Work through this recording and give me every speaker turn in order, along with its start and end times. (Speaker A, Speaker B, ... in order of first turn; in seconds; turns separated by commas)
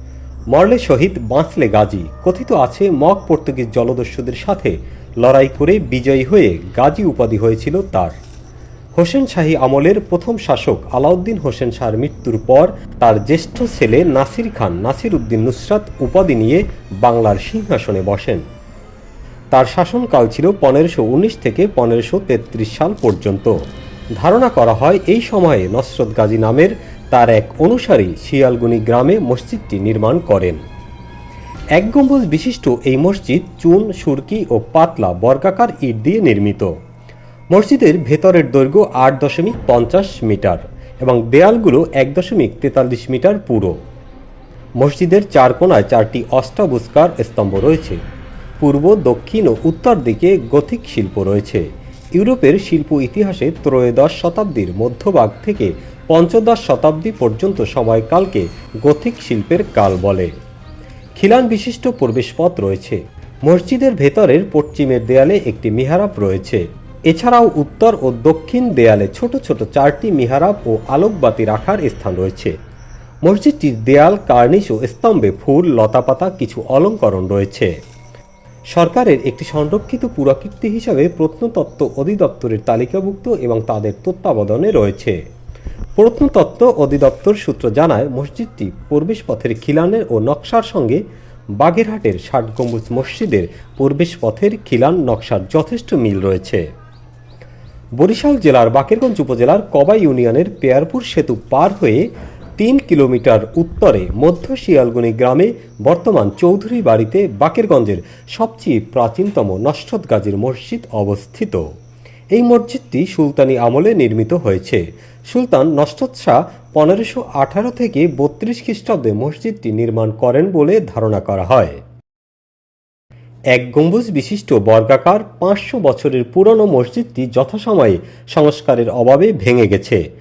Speaker A: 0.5-8.2, Speaker A: 9.0-18.4, Speaker A: 19.5-23.5, Speaker A: 24.2-30.6, Speaker A: 31.8-36.7, Speaker A: 37.5-43.7, Speaker A: 44.8-48.0, Speaker A: 48.6-51.6, Speaker A: 52.2-60.3, Speaker A: 61.2-72.5, Speaker A: 73.3-77.7, Speaker A: 78.7-85.2, Speaker A: 86.0-91.0, Speaker A: 91.6-96.6, Speaker A: 98.0-102.0, Speaker A: 102.6-111.6, Speaker A: 112.3-121.8, Speaker A: 123.5-130.0